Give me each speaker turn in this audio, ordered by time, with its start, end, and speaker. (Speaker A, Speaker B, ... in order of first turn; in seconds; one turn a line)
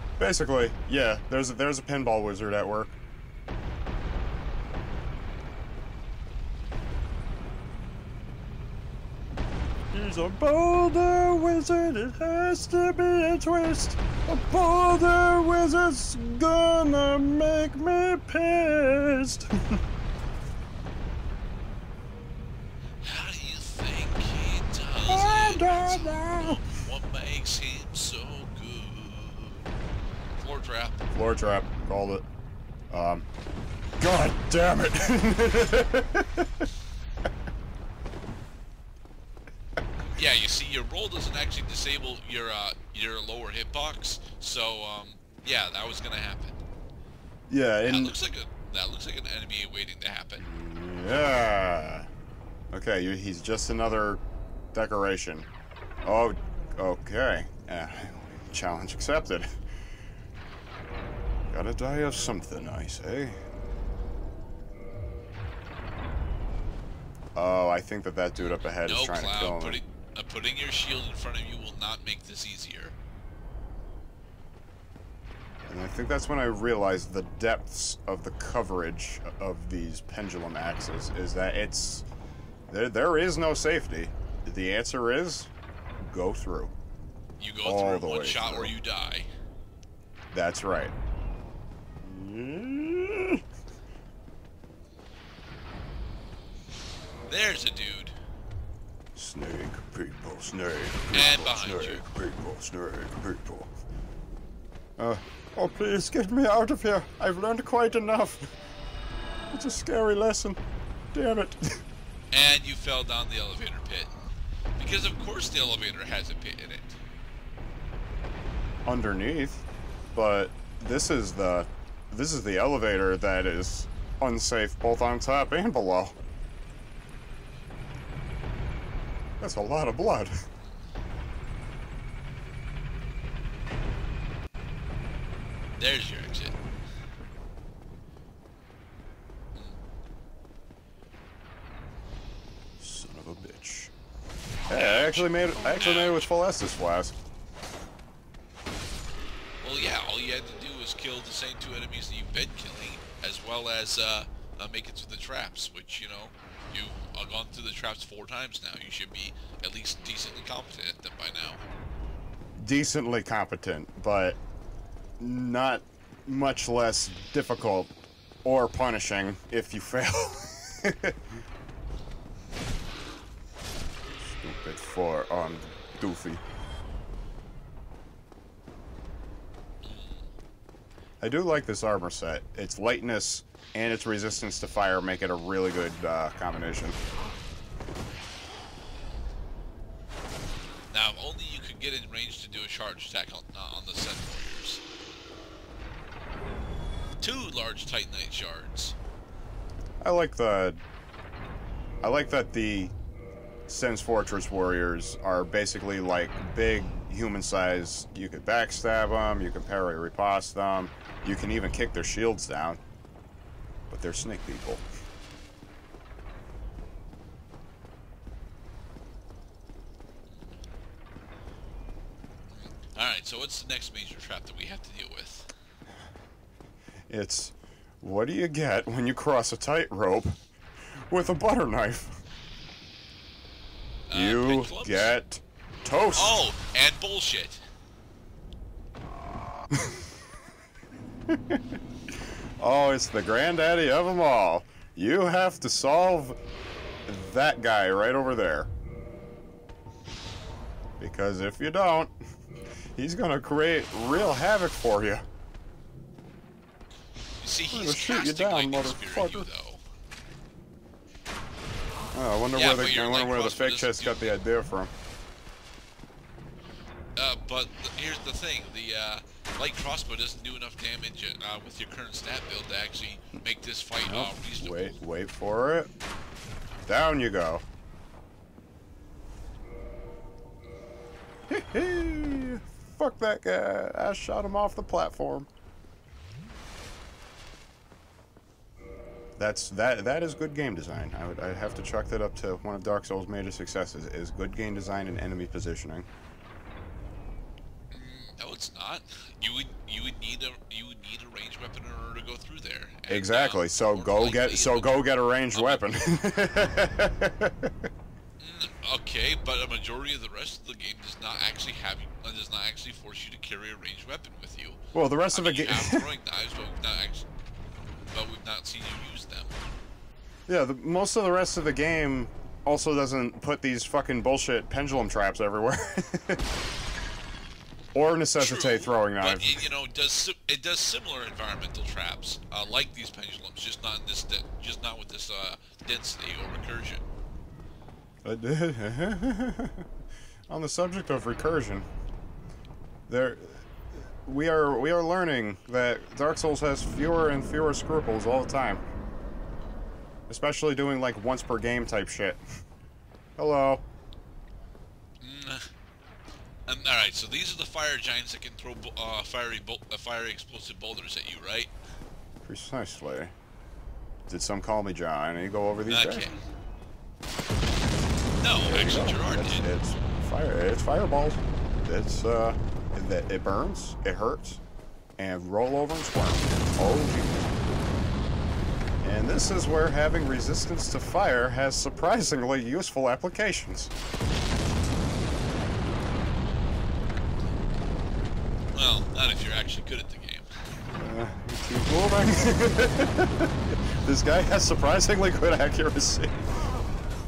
Speaker A: 0.2-2.9
Speaker A: 9.9-19.8
Speaker B: 23.0-29.7
Speaker A: 25.1-26.6
Speaker B: 30.4-31.1
Speaker A: 31.1-32.2
Speaker A: 32.9-33.3
Speaker A: 34.0-36.5
Speaker B: 40.1-46.6
Speaker A: 47.5-48.1
Speaker B: 47.9-50.4
Speaker A: 50.4-52.1
Speaker A: 52.7-54.2
Speaker A: 54.7-55.5
Speaker A: 56.0-59.5
Speaker A: 61.5-63.4
Speaker A: 67.3-69.8
Speaker B: 68.4-73.0
Speaker A: 75.7-82.1
Speaker A: 82.7-86.7
Speaker B: 87.4-89.3
Speaker A: 87.6-88.8
Speaker A: 90.3-90.9
Speaker A: 92.0-93.4
Speaker B: 97.3-98.2
Speaker A: 99.2-103.7
Speaker B: 101.1-102.0
Speaker A: 105.0-108.5
Speaker A: 109.5-110.6
Speaker A: 111.1-111.8
Speaker B: 112.3-117.0
Speaker A: 118.9-126.2
Speaker A: 129.4-130.3
Speaker B: 135.8-136.6
Speaker B: 139.6-139.8
Speaker A: 142.8-143.9
Speaker A: 144.7-147.2
Speaker B: 144.7-146.3
Speaker B: 149.6-161.6
Speaker A: 162.6-164.4
Speaker A: 165.2-167.9
Speaker A: 168.4-171.2
Speaker A: 174.2-176.4
Speaker B: 179.8-180.3
Speaker A: 181.2-187.0
Speaker B: 190.9-194.8
Speaker B: 197.2-199.0
Speaker A: 200.0-200.8
Speaker A: 202.0-202.9
Speaker A: 203.7-212.8
Speaker A: 213.9-214.8
Speaker B: 222.5-225.5
Speaker A: 227.1-230.4
Speaker A: 231.0-232.2
Speaker B: 234.1-235.1
Speaker A: 234.1-236.4
Speaker B: 236.2-237.6
Speaker A: 241.3-241.6
Speaker A: 242.6-246.4
Speaker A: 247.1-248.7
Speaker A: 251.0-252.1
Speaker A: 253.0-255.2
Speaker B: 257.4-259.8
Speaker A: 257.7-259.5
Speaker A: 262.1-264.9
Speaker B: 262.5-264.4
Speaker B: 267.2-275.0
Speaker A: 274.0-275.9
Speaker A: 276.9-277.6
Speaker A: 281.5-285.5
Speaker A: 289.4-296.1
Speaker B: 297.9-305.9
Speaker A: 303.1-307.7
Speaker B: 308.4-314.8
Speaker A: 314.9-316.1
Speaker B: 315.3-317.3
Speaker B: 318.1-319.6
Speaker A: 320.5-326.4
Speaker A: 327.9-329.7
Speaker B: 328.4-337.0
Speaker A: 338.2-339.9
Speaker A: 340.5-341.9
Speaker A: 343.1-343.7
Speaker A: 344.2-348.8
Speaker A: 350.3-352.4
Speaker A: 353.4-353.8
Speaker B: 355.2-355.7
Speaker B: 356.7-361.7
Speaker A: 362.4-363.3
Speaker A: 364.3-366.3
Speaker B: 365.9-366.4
Speaker B: 368.4-369.7
Speaker A: 368.6-374.6
Speaker A: 375.2-377.6
Speaker A: 379.0-383.9
Speaker B: 388.7-390.5
Speaker A: 390.9-396.4